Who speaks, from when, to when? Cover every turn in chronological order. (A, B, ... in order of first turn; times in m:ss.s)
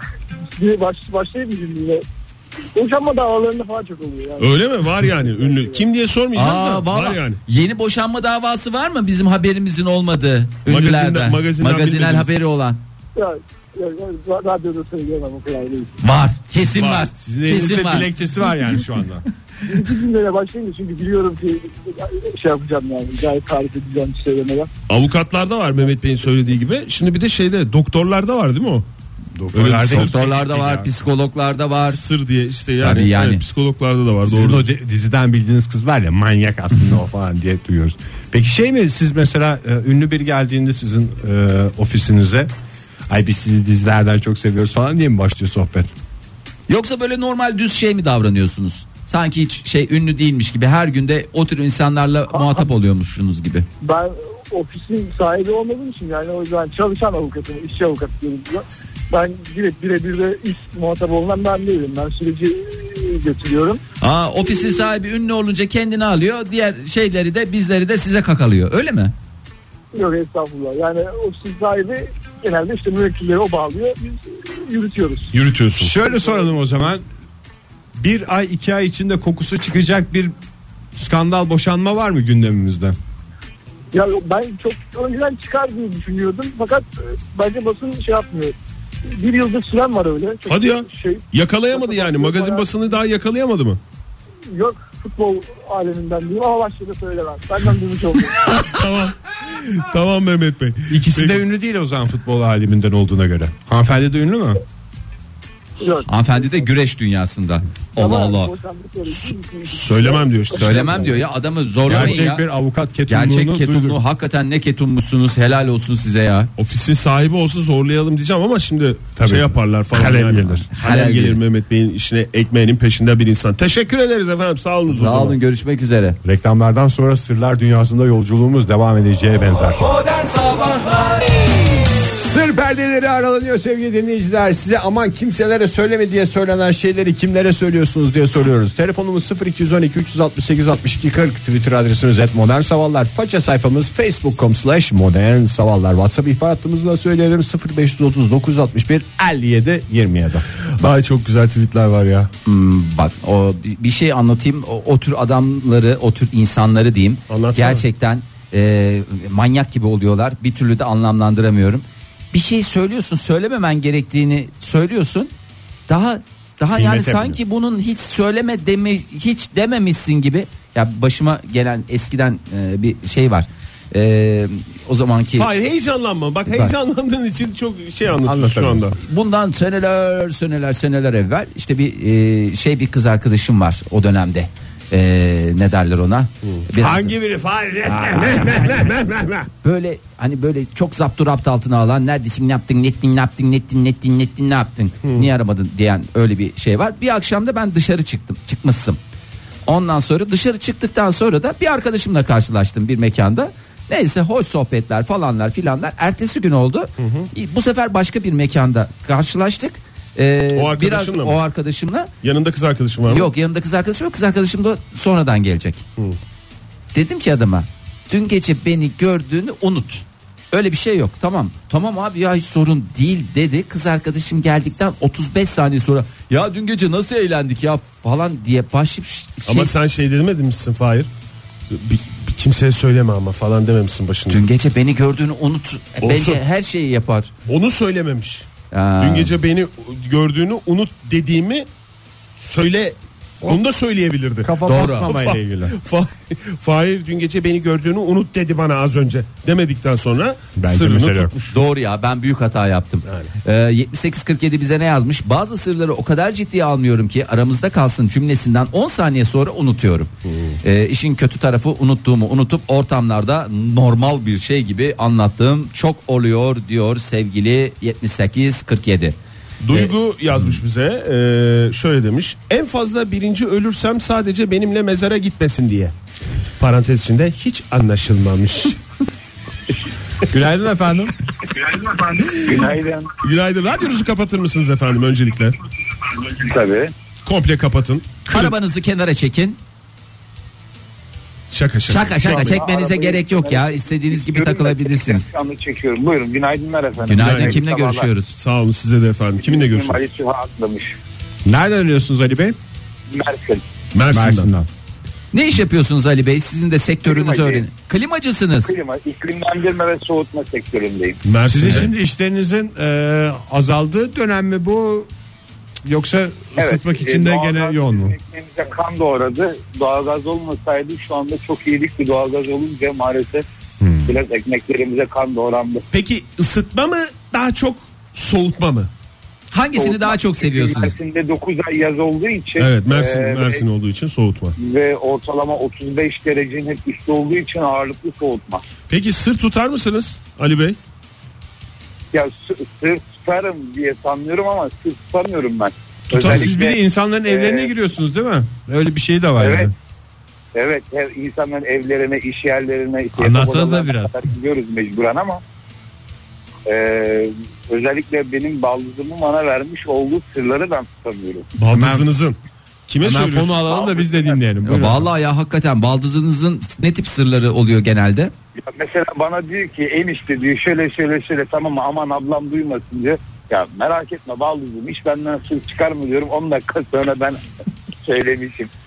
0:00.5-0:02.0 A
0:02.7-0:04.5 A
0:04.4-0:07.4 B
0:05.2-0:05.8 A
0:06.3-0:12.8 C
0:10.6-0:12.3 B
0:13.2-0:15.9 A
0:16.0-0:18.1 C
0:16.7-0:17.1 B
0:17.2-0:19.2 D
0:19.6-0:24.7 A
0:24.9-0:28.8 B
0:29.4-0:30.9 D
0:29.5-0:30.2 B
0:29.9-0:32.0 C
0:31.9-0:34.7 B
0:32.8-0:33.4 C
0:34.2-0:42.5 D
0:43.1-0:45.9 D
0:46.7-0:53.7 C
0:52.3-0:52.7 A
0:53.8-1:03.8 A
1:04.0-1:09.1 C
1:09.9-1:15.3 A
1:15.4-1:15.9 B
1:15.4-1:17.0 D
1:17.9-1:20.3 D
1:20.9-1:23.0 D
1:23.9-1:32.8 A
1:30.5-1:33.8 B
1:34.5-1:38.5 A
1:38.4-1:41.4 B
1:40.9-1:44.6 D
1:45.8-1:46.6 A
1:46.1-1:48.5 C
1:48.0-1:51.2 A
1:49.7-1:51.2 B
1:50.5-1:52.4 C
1:51.8-1:54.0 D
1:51.9-1:52.1 B
1:53.1-1:56.5 C
1:56.6-2:05.4 B
1:59.2-2:00.7 D
2:00.7-2:01.4 C
2:04.9-2:06.2 C
2:06.2-2:09.9 D
2:09.8-2:11.4 C
2:11.9-2:30.5 D
2:30.8-2:32.3 B
2:32.4-2:45.3 C
2:37.3-2:37.8 B
2:45.9-2:55.5 C
2:46.7-2:47.4 D
2:55.4-2:59.0 B
2:58.2-2:58.9 D
2:59.0-3:07.1 C
3:06.8-3:08.9 D
3:07.9-3:09.5 B
3:09.6-3:19.0 C
3:19.6-3:32.1 C
3:27.0-3:27.3 B
3:30.5-3:31.4 B
3:32.2-3:33.3 B
3:33.1-3:35.8 C
3:36.9-3:49.7 C
3:49.5-3:51.1 B
3:51.7-3:54.4 B
3:54.3-3:57.3 C
3:56.0-3:56.4 B
3:57.5-3:58.5 B
3:58.7-3:59.3 C
3:59.0-4:01.7 B
4:02.4-4:11.6 B
4:04.4-4:05.7 D
4:04.6-4:05.1 C
4:10.6-4:11.3 D
4:11.5-4:20.1 C
4:13.0-4:13.3 B
4:20.2-4:20.6 B
4:20.6-4:29.2 C
4:29.6-4:35.9 B
4:36.6-4:38.8 B
4:40.2-4:41.1 D
4:41.8-4:43.1 E
4:42.2-4:45.6 B
4:46.2-4:46.9 E
4:47.2-4:48.5 B
4:48.2-4:49.6 C
4:51.5-4:52.6 B
4:51.9-4:55.3 C
4:52.2-4:58.1 E
4:57.1-4:58.4 C
4:57.1-4:57.6 B
4:58.3-5:00.0 B
4:59.4-5:01.0 E
5:01.4-5:02.6 D
5:03.1-5:03.7 E
5:03.9-5:04.5 B
5:04.1-5:04.7 D
5:05.3-5:08.7 C
5:07.0-5:07.6 E
5:08.6-5:11.2 E
5:11.2-5:11.9 B
5:11.4-5:15.1 D
5:15.8-5:18.2 D
5:16.6-5:23.4 E
5:23.8-5:24.1 D
5:24.0-5:25.8 E
5:25.9-5:28.9 B
5:29.5-5:30.9 C
5:29.7-5:33.6 E
5:32.6-5:34.6 B
5:34.6-5:38.6 E
5:38.9-5:40.8 B
5:42.1-5:47.7 E
5:46.1-5:49.7 D
5:46.1-5:46.5 B
5:49.4-5:49.7 E
5:50.5-5:55.4 E
5:53.1-5:54.2 D
5:56.6-6:01.5 E
6:01.6-6:02.4 B
6:01.7-6:02.1 D
6:02.9-6:03.6 B
6:03.0-6:05.1 D
6:03.7-6:04.4 E
6:04.6-6:08.3 C
6:08.6-6:17.4 E
6:18.0-6:18.7 E